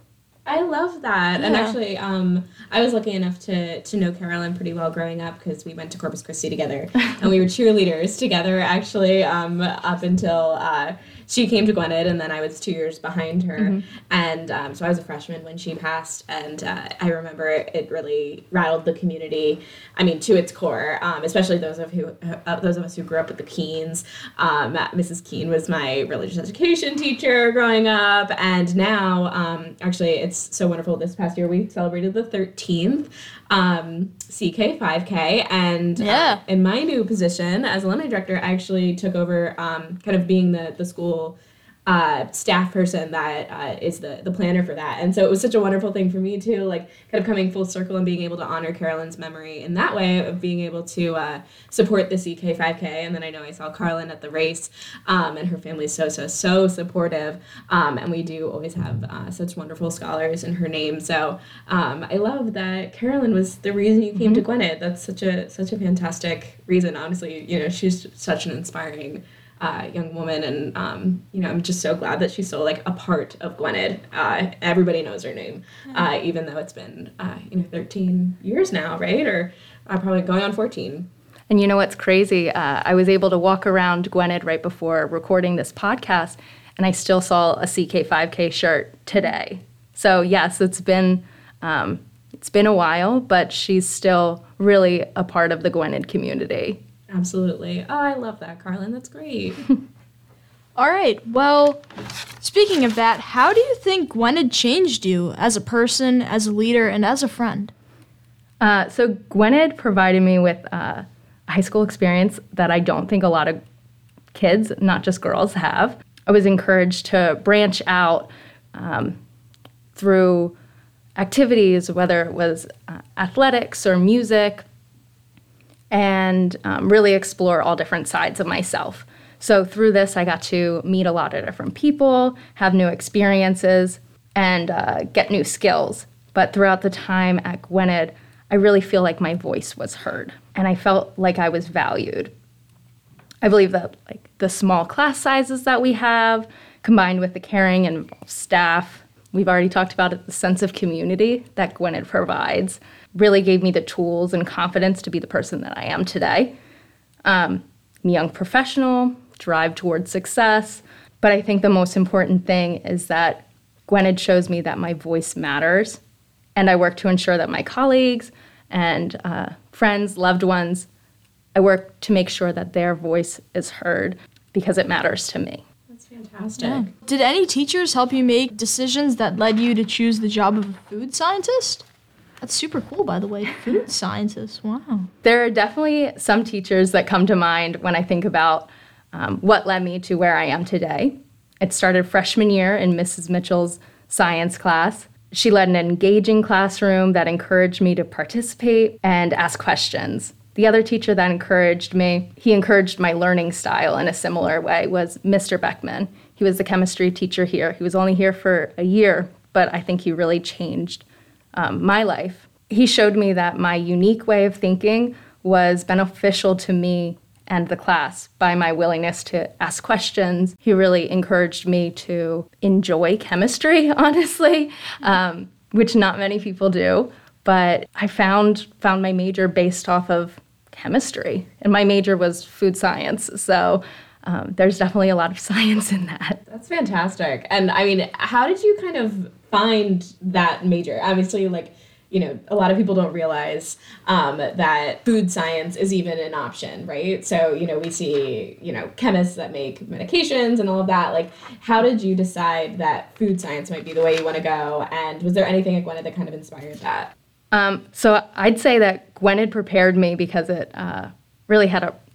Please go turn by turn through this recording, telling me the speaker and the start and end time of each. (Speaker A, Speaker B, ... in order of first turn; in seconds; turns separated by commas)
Speaker A: 0.5-81.1, Speaker B: 1.4-1.8, Speaker B: 36.0-36.4, Speaker C: 64.2-64.4, Speaker C: 81.5-96.8, Speaker A: 97.1-99.7, Speaker B: 100.8-101.8, Speaker B: 102.4-107.7, Speaker C: 108.6-113.6, Speaker C: 114.3-119.2, Speaker C: 119.9-120.5, Speaker C: 121.2-124.7, Speaker C: 125.9-142.3, Speaker C: 143.4-156.5, Speaker C: 157.2-166.0, Speaker C: 166.6-170.9, Speaker C: 171.5-175.6, Speaker A: 175.9-176.9, Speaker B: 176.6-181.8, Speaker B: 182.4-185.1, Speaker C: 185.2-236.4, Speaker A: 236.5-257.1, Speaker C: 257.5-261.9